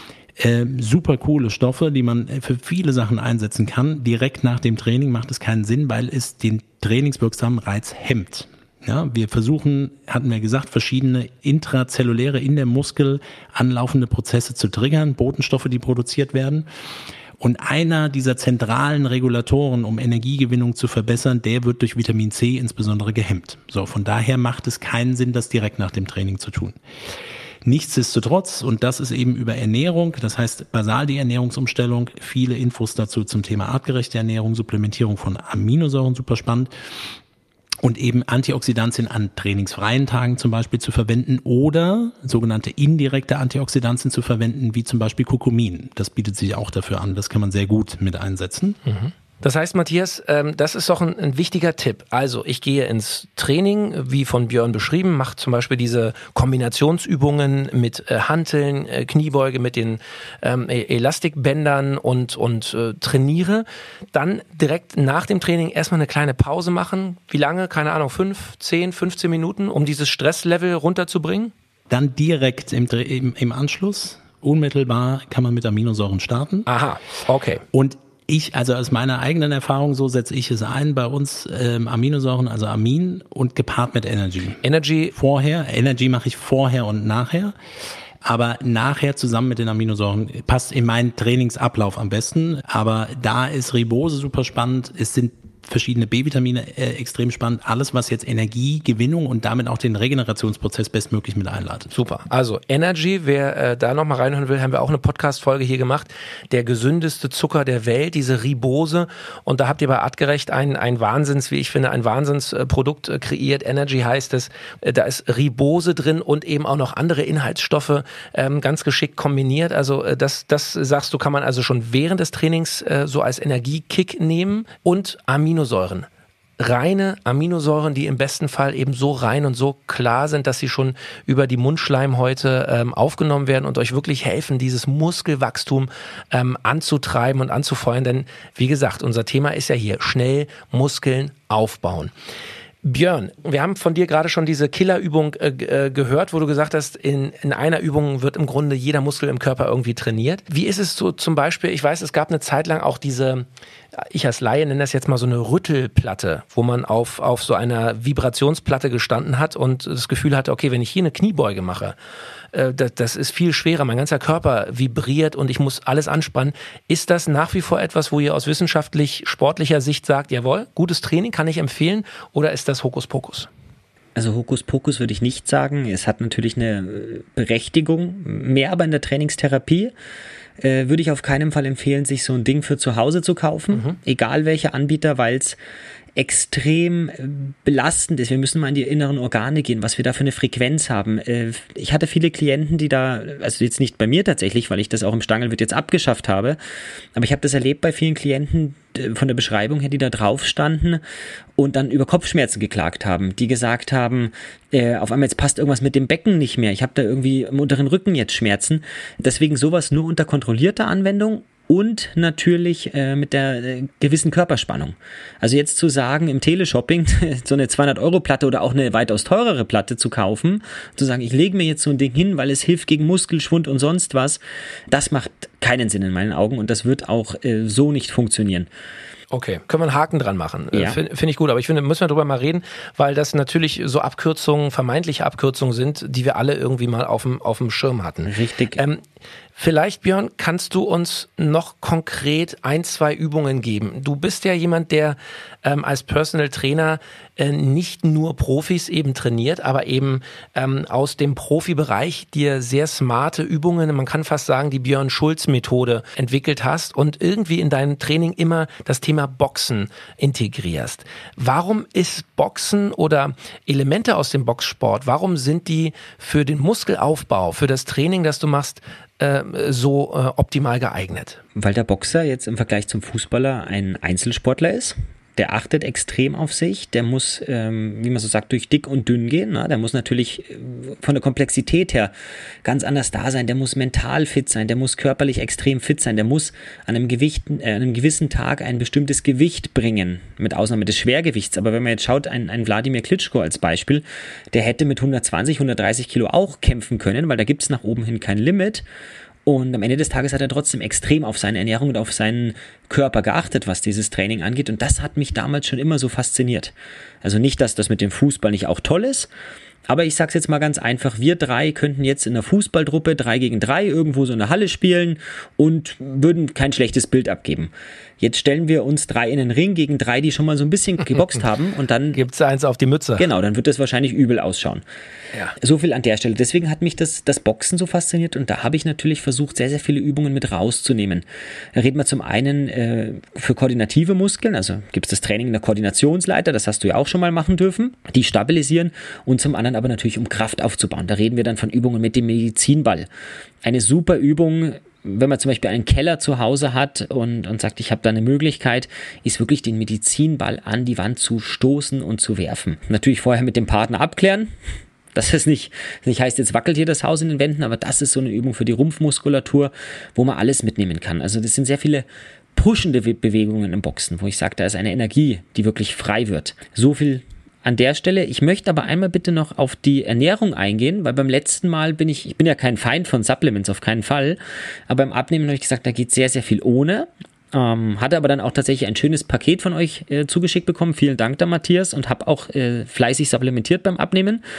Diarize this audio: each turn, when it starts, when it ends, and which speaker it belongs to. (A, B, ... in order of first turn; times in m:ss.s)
0:00.4-0:16.6 A
0:17.4-0:26.8 A
0:27.6-0:36.7 A
0:37.8-0:48.8 A
0:48.8-1:11.5 B
1:11.9-1:16.7 A
1:16.7-1:17.6 B
1:17.7-1:24.6 A
1:24.6-1:25.1 B
1:25.1-1:27.5 A
1:28.2-1:41.9 A
1:41.9-2:06.1 B
2:06.6-2:22.1 B
2:22.8-2:33.4 B
2:34.0-2:41.9 B
2:42.5-2:53.5 B
2:54.2-2:59.9 C
3:00.6-3:05.6 C
3:06.2-3:16.6 C
3:17.2-3:21.0 C
3:21.6-3:48.7 C
3:49.3-3:59.0 B
3:50.7-3:51.0 C
3:58.2-3:58.8 C
3:59.6-4:31.4 B
4:31.6-4:42.1 C
4:42.6-4:58.8 C
4:59.4-5:09.3 C
5:09.9-5:22.2 C
5:22.1-5:23.2 B
5:23.2-5:24.8 C
5:25.6-5:43.1 C
5:43.6-5:54.5 C
5:55.1-6:24.4 C